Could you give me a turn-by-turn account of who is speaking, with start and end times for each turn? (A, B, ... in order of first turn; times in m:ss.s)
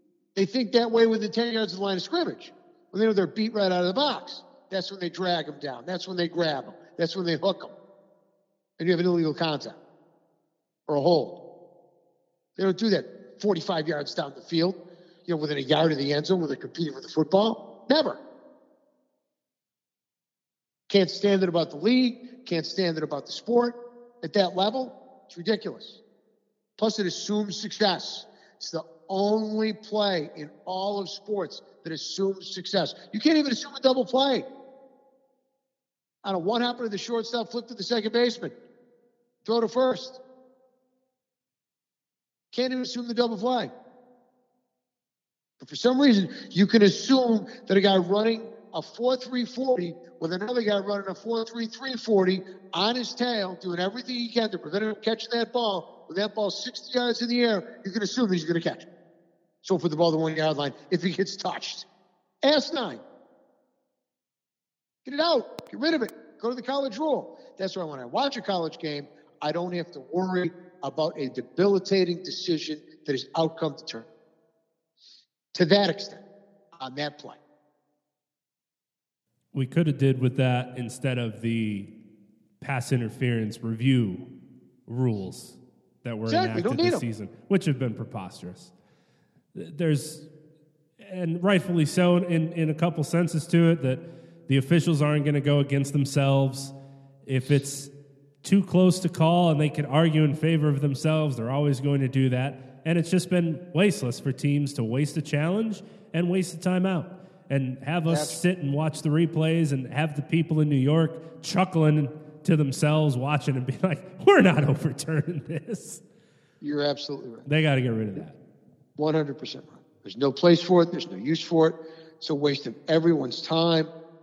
0:00.4-0:07.7 A
0:08.8-0:09.8 A
0:10.9-0:11.4 A
0:12.6-0:18.2 A
0:20.9-0:26.0 A
0:26.8-0:34.5 A
0:36.2-0:38.6 A
0:39.4-0:40.2 A
0:42.5-0:43.7 A
0:45.6-0:58.9 A
0:59.6-1:01.9 A
1:02.4-1:03.0 A
1:05.0-1:14.1 A
1:15.5-1:16.2 A
1:16.7-1:17.4 A
1:19.5-1:21.9 B
1:22.6-1:24.3 B
1:24.9-1:28.7 B
1:26.3-1:27.0 A
1:29.6-1:30.3 B
1:31.0-1:36.7 B
1:37.2-1:37.9 B
1:38.4-1:56.0 B
1:48.1-1:48.4 A
1:56.6-1:57.4 A
1:57.4-1:58.4 B
1:59.0-2:03.9 A